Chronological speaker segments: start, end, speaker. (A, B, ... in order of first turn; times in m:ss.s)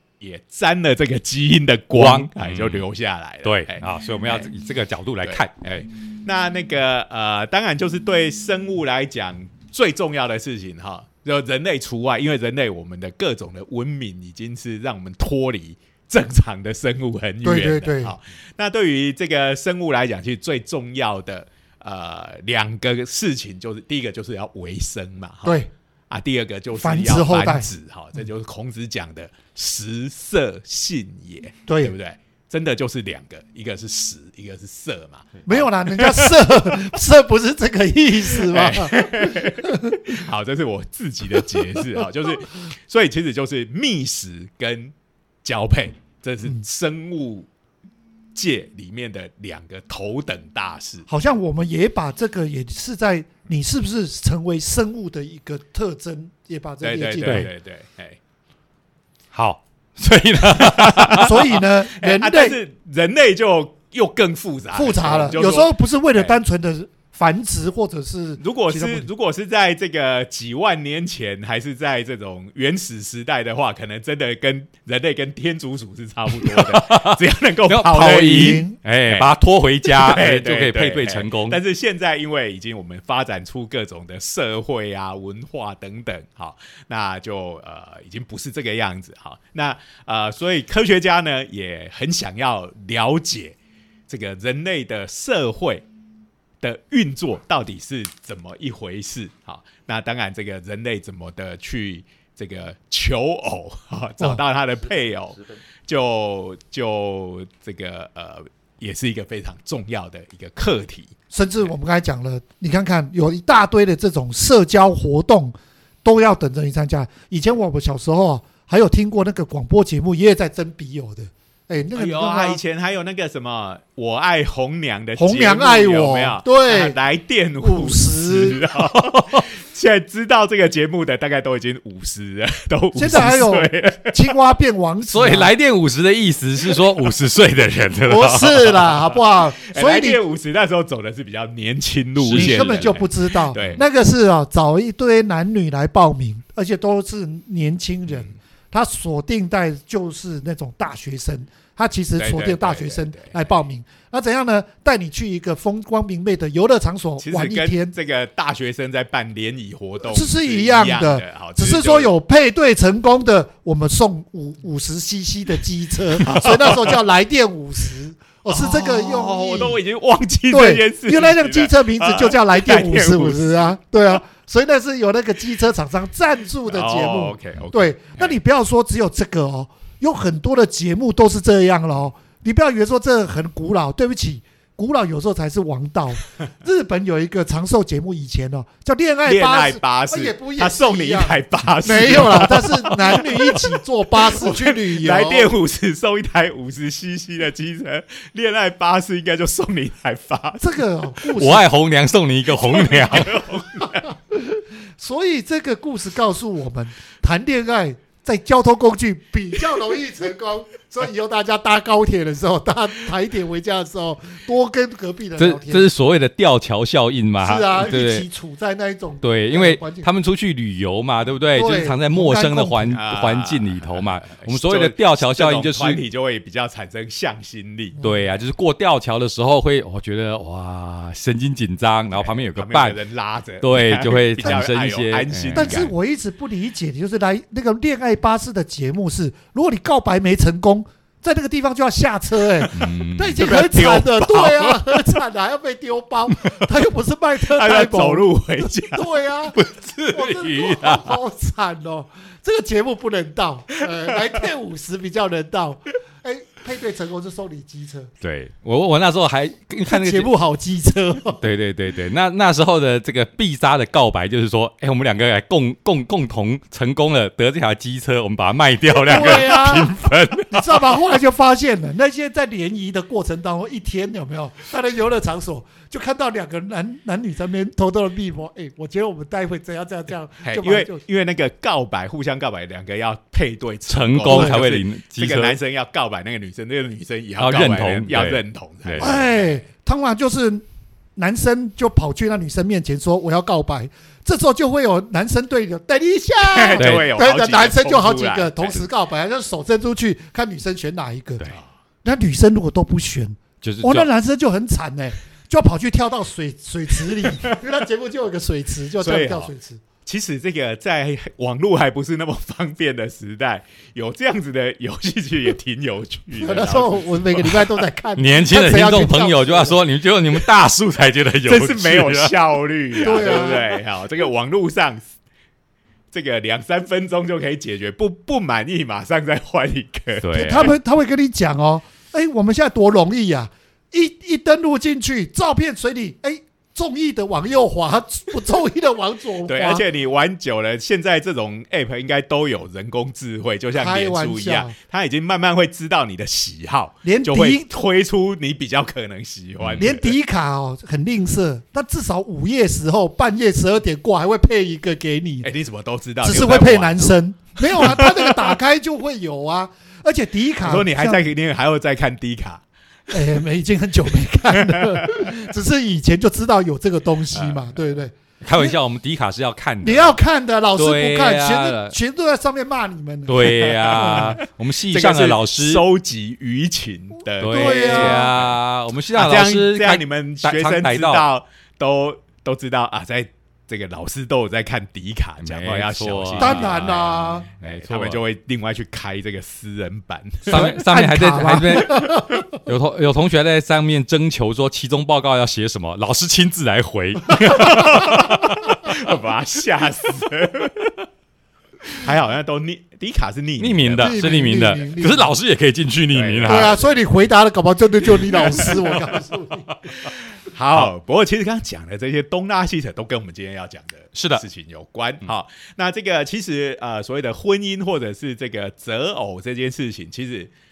0:00.2-0:04.5 A
0:01.9-0:02.8 B
0:03.4-0:05.5 B
0:05.2-0:25.6 A
0:17.4-0:18.1 C
0:25.4-0:25.7 C
0:26.1-0:36.9 A
0:26.8-0:27.7 C
0:31.7-0:31.9 C
0:35.4-0:40.2 C
0:38.4-0:44.9 A
0:45.4-0:47.5 A
0:48.4-0:51.1 A
0:51.1-0:57.5 C
0:56.8-0:58.2 A
0:59.3-1:01.4 B
1:00.6-1:01.3 A
1:01.1-1:02.6 C
1:01.9-1:06.4 A
1:04.7-1:09.1 C
1:08.4-1:19.3 A
1:16.3-1:21.6 B
1:18.0-1:18.8 C
1:19.9-1:33.6 A
1:34.1-1:35.8 A
1:36.6-1:51.2 A
1:51.3-2:02.6 C
2:01.9-2:14.3 A
2:05.2-2:07.0 C
2:07.6-2:08.6 C
2:08.9-2:09.4 B
2:12.9-2:15.5 C
2:15.1-2:18.9 B
2:18.1-2:20.2 C
2:19.6-2:23.8 A
2:22.2-2:22.9 B
2:22.3-2:37.9 C
2:32.2-2:33.5 A
2:37.2-2:42.1 A
2:40.1-2:49.8 C
2:46.2-2:47.0 A
2:48.5-2:53.8 A
2:50.5-3:15.5 C
2:56.7-2:58.4 A
3:09.2-3:20.8 A
3:20.6-3:21.6 C
3:21.4-3:23.4 B
3:22.6-3:24.1 A
3:23.8-3:35.9 C
3:35.4-3:38.3 B
3:37.4-3:40.1 C
3:39.2-3:46.0 B
3:41.5-3:43.0 C
3:42.9-3:48.0 A
3:48.0-3:48.3 C
3:48.0-3:53.0 B
3:52.1-3:55.9 A
3:53.6-3:55.9 B
3:55.6-4:18.1 C
4:02.7-4:03.6 B
4:02.8-4:05.1 A
4:07.4-4:09.1 A
4:09.6-4:11.2 B
4:18.2-4:20.3 B
4:19.9-4:21.4 C
4:21.4-4:30.9 B
4:29.0-4:30.0 C
4:30.5-4:41.0 C
4:40.4-4:49.6 A
4:43.9-4:45.6 B
4:44.3-4:44.6 C
4:47.4-4:49.1 B
4:49.0-4:50.6 C
4:51.2-5:01.5 C
4:56.4-4:58.9 A
4:56.8-4:57.1 B
5:02.0-5:09.8 C
5:03.6-5:04.1 B
5:07.3-5:07.6 A
5:09.0-5:09.5 A
5:10.0-5:17.7 A
5:16.4-5:19.8 C
5:18.2-5:22.4 B
5:21.4-5:25.1 A
5:23.0-5:23.7 C
5:26.1-5:30.7 A
5:30.2-5:30.7 B
5:30.3-5:39.8 C
5:39.4-5:50.1 A
5:43.7-5:44.7 C
5:47.0-5:47.7 C
5:49.6-5:49.9 B
5:49.8-5:55.5 C
5:55.4-5:58.6 A
5:56.2-6:01.2 C
6:00.6-6:02.6 A
6:03.1-6:08.8 C
6:04.6-6:05.3 A
6:07.3-6:07.8 A
6:08.4-6:10.2 B
6:09.8-6:14.4 C
6:10.8-6:12.0 B
6:13.3-6:15.8 B
6:13.7-6:14.4 A
6:14.9-6:18.6 A
6:17.4-6:21.2 B
6:17.5-6:18.3 C
6:19.1-6:30.7 A
6:25.4-6:28.2 B
6:26.4-6:27.5 C
6:30.5-6:32.5 C
6:30.5-6:39.1 B
6:37.4-6:41.0 A
6:41.9-6:44.3 A
6:43.6-6:46.8 B
6:44.0-6:45.3 C
6:46.1-6:46.9 A
6:46.4-6:49.7 C
6:48.5-6:48.7 A
6:50.0-7:00.5 A
6:54.1-6:54.4 B